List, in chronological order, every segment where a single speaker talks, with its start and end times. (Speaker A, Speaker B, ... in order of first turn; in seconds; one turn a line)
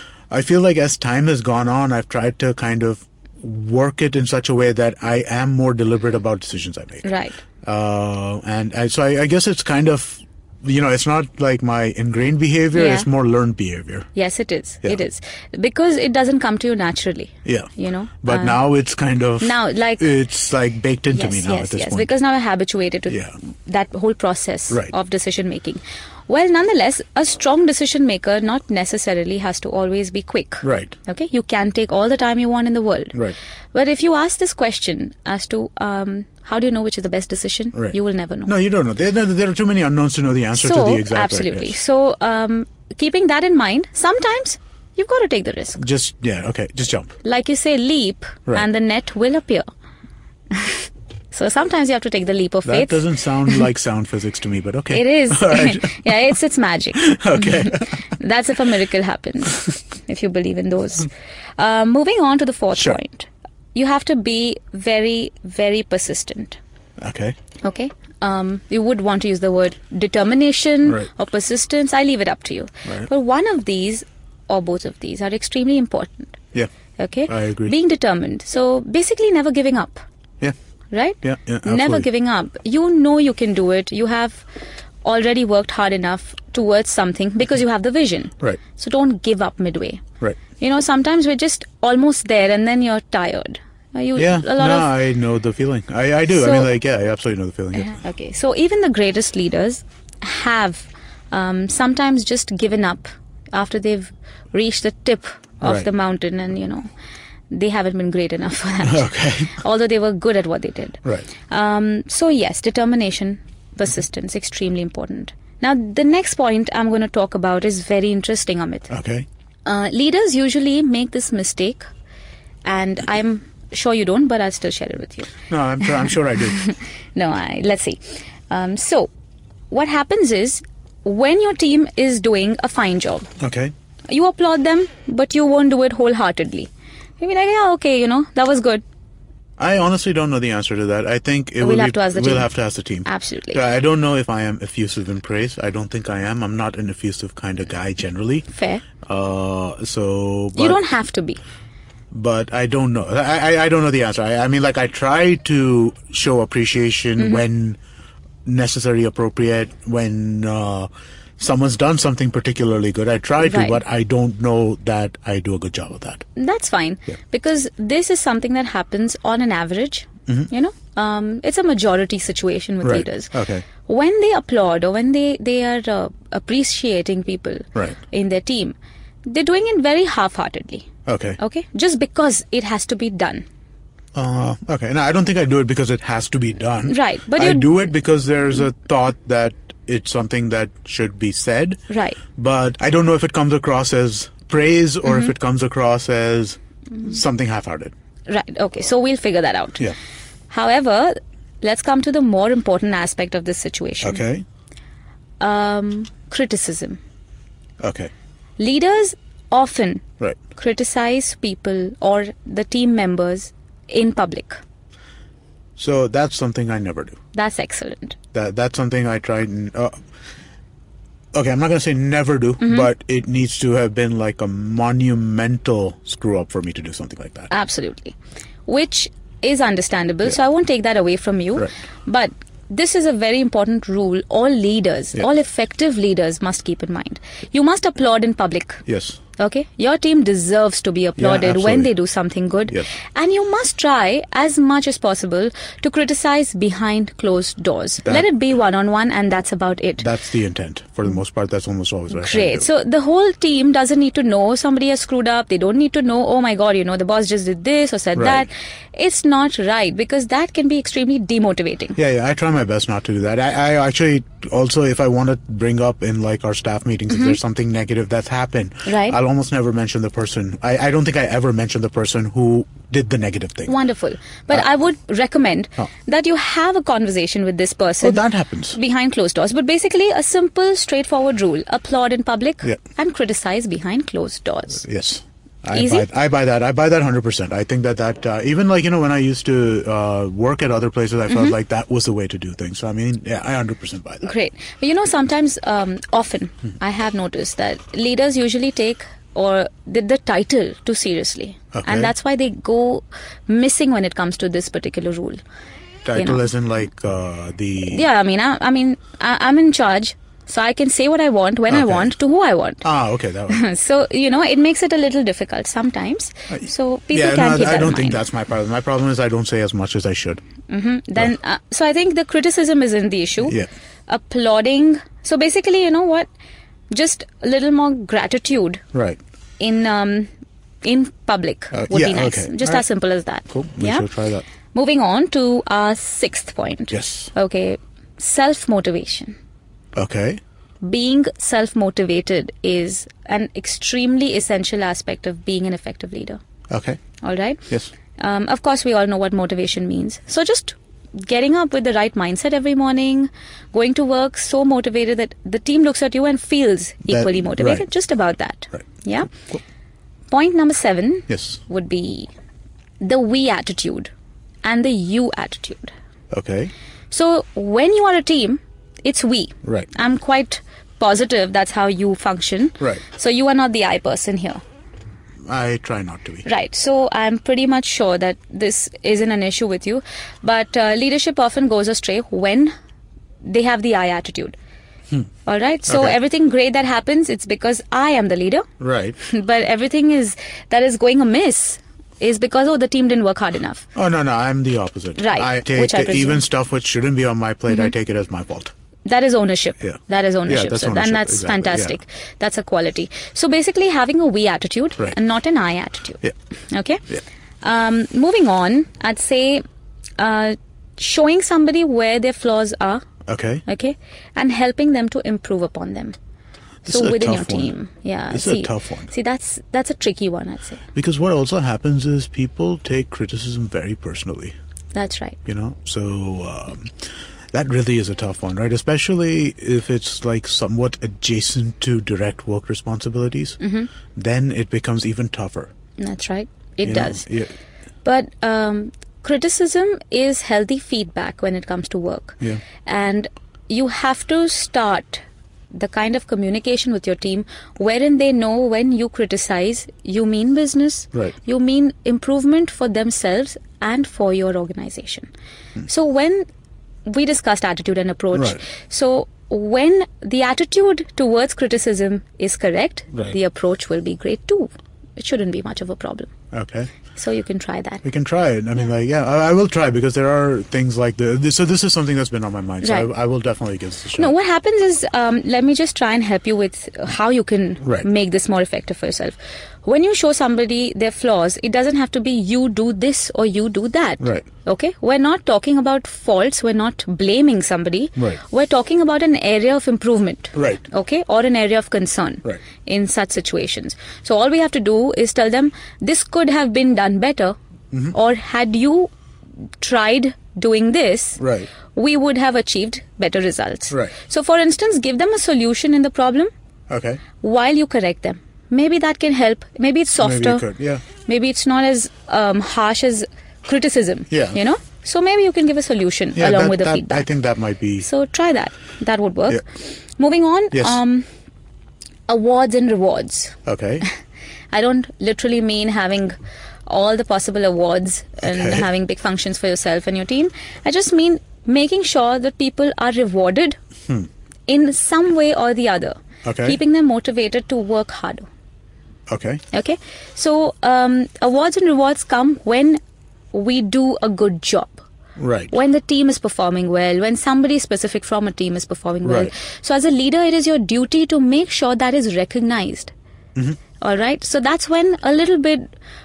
Speaker A: 0.3-7.0
Speaker B: 7.0-7.4
Speaker A: 7.6-14.1
Speaker B: 12.7-13.1
Speaker B: 14.1-18.6
Speaker A: 17.4-17.7
Speaker A: 18.2-22.1
Speaker B: 19.4-20.1
Speaker B: 21.1-38.5
Speaker A: 23.1-23.4
Speaker A: 30.6-30.9
Speaker A: 37.7-41.8
Speaker B: 40.5-45.9
Speaker A: 45.8-47.1
Speaker B: 47.2-49.6
Speaker B: 50.5-53.6
Speaker A: 52.6-56.0
Speaker B: 54.9-66.6
Speaker A: 57.0-57.9
Speaker A: 67.0-67.3
Speaker B: 67.6-76.4
Speaker B: 77.0-80.0
Speaker A: 77.3-77.7
Speaker B: 80.9-84.4
Speaker A: 81.2-82.1
Speaker B: 85.0-90.0
Speaker B: 90.6-94.9
Speaker A: 94.1-97.9
Speaker B: 96.3-96.7
Speaker B: 97.7-106.8
Speaker A: 105.6-105.9
Speaker B: 107.5-118.9
Speaker A: 108.8-109.6
Speaker A: 118.9-119.2
Speaker B: 119.7-121.8
Speaker B: 122.6-125.3
Speaker A: 125.5-126.6
Speaker B: 126.0-129.1
Speaker B: 129.7-133.3
Speaker A: 133.4-133.7
Speaker B: 134.1-138.8
Speaker A: 139.6-148.5
Speaker B: 141.6-142.5
Speaker B: 143.0-143.6
Speaker B: 148.5-148.8
Speaker A: 149.0-150.8
Speaker B: 150.5-151.4
Speaker A: 152.1-157.8
Speaker B: 157.2-157.4
Speaker A: 158.4-166.2
Speaker B: 163.4-163.8
Speaker B: 166.3-178.8
Speaker A: 172.8-173.6
Speaker B: 179.3-180.9
Speaker A: 181.1-181.4
Speaker B: 181.4-183.4
Speaker A: 184.1-191.8
Speaker B: 186.8-187.7
Speaker B: 191.9-192.2
Speaker A: 192.3-197.9
Speaker B: 198.3-199.9
Speaker B: 200.5-204.2
Speaker A: 204.0-204.4
Speaker B: 205.4-207.0
Speaker A: 207.8-208.1
Speaker B: 208.6-214.6
Speaker A: 215.8-217.2
Speaker B: 217.3-218.2
Speaker A: 218.3-219.9
Speaker A: 221.3-227.5
Speaker B: 222.6-222.9
Speaker B: 227.5-238.8
Speaker A: 238.9-239.2
Speaker B: 239.4-250.1
Speaker A: 241.2-241.9
Speaker A: 250.0-252.7
Speaker B: 252.1-262.0
Speaker A: 258.1-258.5
Speaker A: 261.9-273.7
Speaker B: 267.1-267.4
Speaker B: 268.9-269.2
Speaker B: 273.7-284.8
Speaker A: 278.0-278.8
Speaker A: 284.8-294.3
Speaker B: 285.7-286.1
Speaker B: 291.3-291.6
Speaker B: 294.2-305.4
Speaker A: 301.7-302.1
Speaker A: 306.0-308.1
Speaker B: 306.1-306.5
Speaker B: 307.8-312.8
Speaker A: 311.7-312.1
Speaker A: 312.8-313.6
Speaker B: 313.5-318.2
Speaker A: 316.5-320.4
Speaker B: 320.7-326.3
Speaker B: 326.9-328.8
Speaker A: 328.9-329.2
Speaker B: 329.6-330.3
Speaker B: 330.8-334.1
Speaker A: 331.7-332.8
Speaker A: 333.5-334.4
Speaker B: 334.7-339.3
Speaker A: 336.9-337.3
Speaker A: 339.9-340.4
Speaker B: 340.8-346.4
Speaker A: 346.7-347.0
Speaker B: 347.2-347.6
Speaker B: 348.2-359.3
Speaker A: 357.1-357.9
Speaker B: 360.3-362.3
Speaker A: 361.3-361.6
Speaker B: 363.0-364.1
Speaker B: 364.6-365.9
Speaker A: 366.3-366.7
Speaker B: 367.1-374.6
Speaker A: 369.6-369.9
Speaker A: 375.4-376.4
Speaker B: 376.4-382.7
Speaker B: 383.4-384.6
Speaker B: 385.4-388.7
Speaker A: 385.9-386.1
Speaker A: 388.8-389.1
Speaker B: 389.2-393.9
Speaker A: 393.9-398.7
Speaker B: 395.2-396.4
Speaker B: 399.1-409.6
Speaker A: 399.8-401.9
Speaker B: 410.2-413.0
Speaker A: 413.3-413.6
Speaker B: 413.6-416.1
Speaker A: 416.8-417.7
Speaker B: 416.9-420.8
Speaker A: 418.3-419.1
Speaker A: 420.9-424.5
Speaker B: 424.9-425.4
Speaker A: 425.4-426.9
Speaker A: 427.5-433.6
Speaker B: 433.6-433.9
Speaker A: 434.1-435.7
Speaker B: 436.0-437.3
Speaker A: 436.8-437.5
Speaker B: 438.0-455.3
Speaker B: 455.8-456.4
Speaker B: 457.1-466.3
Speaker A: 458.3-458.6
Speaker A: 466.5-466.9
Speaker B: 467.1-468.0
Speaker A: 468.0-474.3
Speaker B: 472.8-473.1
Speaker B: 474.1-497.6
Speaker A: 490.5-490.8
Speaker B: 498.1-499.1
Speaker B: 499.8-501.4
Speaker A: 501.4-501.7
Speaker B: 501.9-506.5
Speaker A: 506.9-507.2
Speaker B: 507.4-510.6
Speaker A: 510.2-511.0
Speaker B: 511.2-517.3
Speaker A: 514.3-514.6
Speaker A: 516.4-518.0
Speaker B: 518.0-521.2
Speaker A: 520.7-521.0
Speaker B: 522.3-523.6
Speaker A: 523.6-524.0
Speaker B: 524.7-526.3
Speaker B: 526.9-533.8
Speaker A: 528.4-528.9
Speaker B: 534.7-538.5
Speaker A: 536.4-536.8
Speaker A: 539.3-539.6
Speaker B: 539.7-543.0
Speaker B: 543.5-545.0
Speaker A: 545.4-545.7
Speaker B: 545.7-553.1
Speaker A: 549.2-549.5
Speaker B: 554.0-555.8